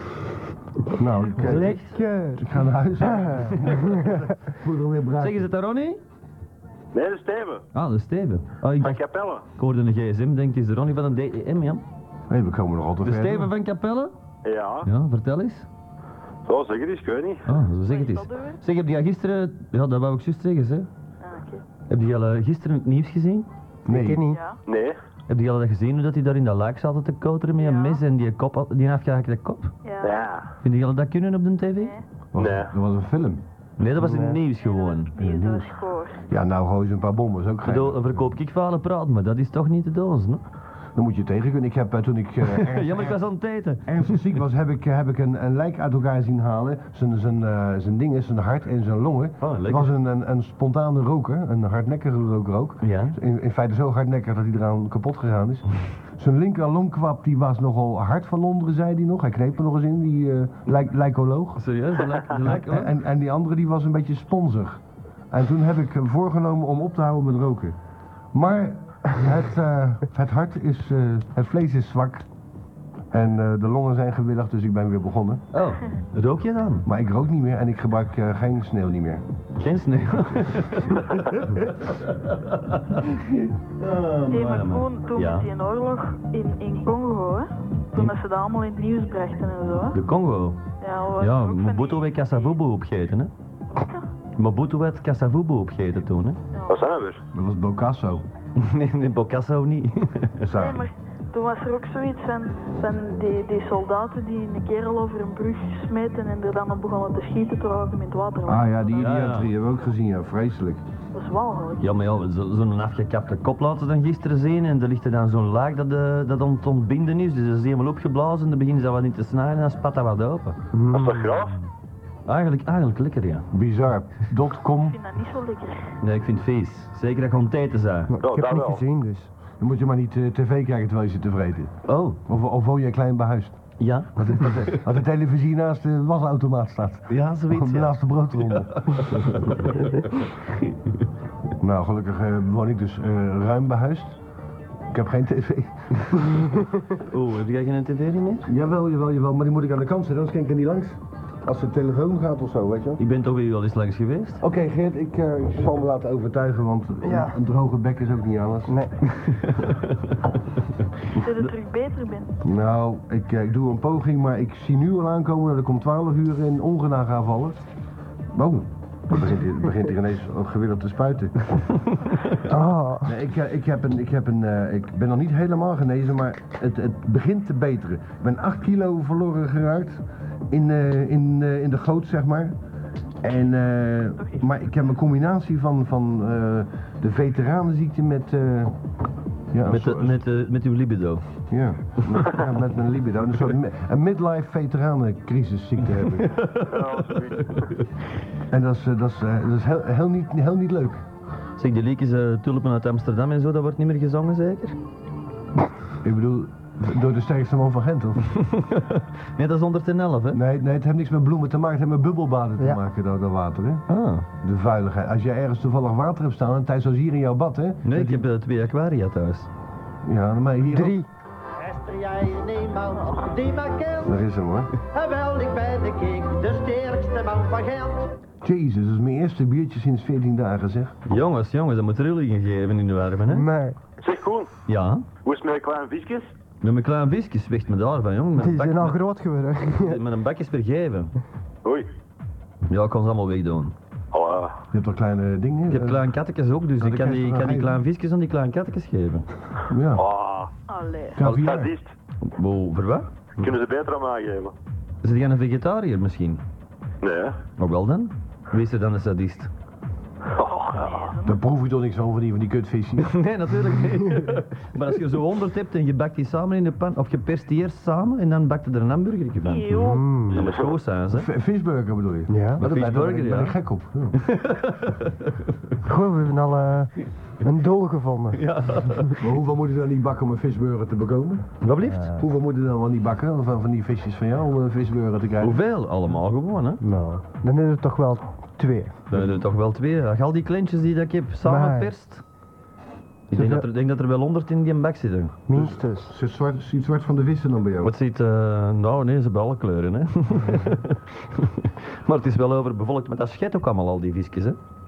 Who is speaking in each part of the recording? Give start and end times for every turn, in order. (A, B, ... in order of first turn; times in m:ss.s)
0:01.0-0:01.8 A
0:01.4-0:02.0 B
0:01.4-0:02.5 C
0:02.4-0:05.4 A
0:03.0-0:04.2 C
0:05.2-0:06.0 B
0:06.9-0:07.6 D
0:07.7-0:09.0 B
0:08.8-0:09.4 D
0:09.5-0:11.8 B
0:12.3-0:13.5 A
0:13.0-0:14.1 B
0:14.4-0:14.9 D
0:14.8-0:15.7 B
0:16.4-0:17.5 D
0:17.4-0:20.9 B
0:17.8-0:18.6 E
0:21.2-0:21.6 E
0:21.9-0:23.5 B
0:23.8-0:24.2 A
0:23.9-0:24.4 C
0:24.3-0:24.6 E
0:24.7-0:25.0 D
0:25.3-0:29.7 B
0:27.6-0:28.0 E
0:29.8-0:30.2 E
0:30.0-0:30.4 D
0:30.6-0:31.9 B
0:32.3-0:33.4 A
0:32.4-0:32.7 D
0:33.8-0:35.1 B
0:34.0-0:34.4 C
0:34.6-0:36.2 E
0:35.2-0:35.8 A
0:36.3-0:38.2 A
0:37.6-0:40.4 B
0:40.9-0:43.2 A
0:42.4-0:44.4 B
0:43.8-1:01.6 A
0:49.4-0:49.9 B
0:52.8-0:53.2 B
1:01.6-1:02.9 B
1:02.3-1:07.8 A
1:08.3-1:12.3 A
1:13.1-1:15.4 A
1:15.5-1:16.8 B
1:16.8-1:19.2 A
1:19.6-1:25.5 B
1:24.3-1:30.0 E
1:29.9-1:30.6 B
1:30.8-1:32.5 E
1:31.2-1:33.3 B
1:34.4-1:36.4 B
1:36.7-1:37.2 D
1:37.3-1:38.2 A
1:38.6-1:40.5 B
1:40.4-1:40.8 A
1:40.5-1:48.8 E
1:48.4-1:50.8 A
1:48.9-1:49.5 B
1:51.1-1:52.0 E
1:51.8-2:00.6 B
2:00.7-2:01.2 C
2:00.9-2:01.6 D
2:02.3-2:03.4 B
2:03.5-2:05.0 A
2:04.8-2:05.9 E
2:06.0-2:08.1 B
2:08.1-2:09.3 C
2:08.2-2:08.8 D
2:09.6-2:11.7 A
2:11.8-2:12.2 B
2:12.2-2:13.6 A
2:13.8-2:14.8 B
2:14.1-2:19.5 A
2:17.1-2:20.7 B
2:21.6-2:24.2 A
2:24.9-2:26.6 A
2:27.0-2:28.5 B
2:28.4-2:33.0 A
2:33.0-2:34.4 B
2:34.4-2:38.8 A
2:37.0-2:37.4 C
2:39.4-2:40.2 B
2:41.1-2:41.5 B
2:41.1-2:42.3 E
2:42.4-2:47.6 A
2:48.3-2:51.9 A
2:52.4-2:53.1 C
2:53.0-3:02.6 A
3:03.2-3:08.8 A
3:09.5-3:10.2 A
3:09.6-3:11.2 B
3:11.5-3:16.4 A
3:12.0-3:12.4 B
3:16.0-3:17.8 B
3:16.5-3:17.7 D
3:18.5-3:21.0 A
3:21.6-3:24.8 B
3:26.0-3:28.3 A
3:28.3-3:30.4 B
3:30.3-3:33.8 A
3:33.9-3:34.3 B
3:34.4-3:38.2 A
3:37.8-3:39.5 B
3:40.0-3:41.0 A
3:40.7-3:41.1 C
3:41.6-3:44.1 F
3:44.0-3:44.7 A
3:44.8-3:48.1 F
3:48.4-3:51.0 A
3:51.0-3:53.5 B
3:53.3-3:53.8 C
3:54.0-3:54.5 D
3:54.7-3:55.0 B
3:55.2-3:56.2 D
3:56.6-3:59.0 B
3:58.4-4:00.0 C
3:59.8-4:01.1 B
4:02.7-4:03.7 B
4:04.1-4:04.5 D
4:04.7-4:06.0 A
4:05.7-4:09.3 B
4:06.8-4:07.8 A
4:09.7-4:10.0 A
4:09.9-4:10.5 D
4:10.7-4:11.2 E
4:11.2-4:11.7 A
4:11.2-4:11.9 D
4:12.2-4:13.4 B
4:13.4-4:14.5 D
4:15.0-4:16.4 B
4:17.0-4:17.4 D
4:17.6-4:19.5 B
4:20.3-4:21.1 D
4:20.7-4:21.3 E
4:21.2-4:23.2 A
4:23.0-4:29.8 B
4:29.4-4:30.0 E
4:29.7-4:30.4 C
4:30.3-4:30.7 D
4:30.3-4:31.3 B
4:31.1-4:34.3 A
4:32.3-4:32.6 C
4:32.6-4:33.6 B
4:34.1-4:35.6 B
4:35.8-4:39.0 C
4:38.3-4:39.2 B
4:39.2-4:45.6 A
4:41.6-4:42.2 B
4:45.4-4:46.8 B
4:46.8-4:49.0 C
4:49.1-4:52.2 B
4:51.4-4:51.9 C
4:53.3-4:55.3 B
4:53.3-4:53.6 C
4:55.5-4:56.1 C
4:55.5-4:57.9 A
4:57.8-5:04.6 B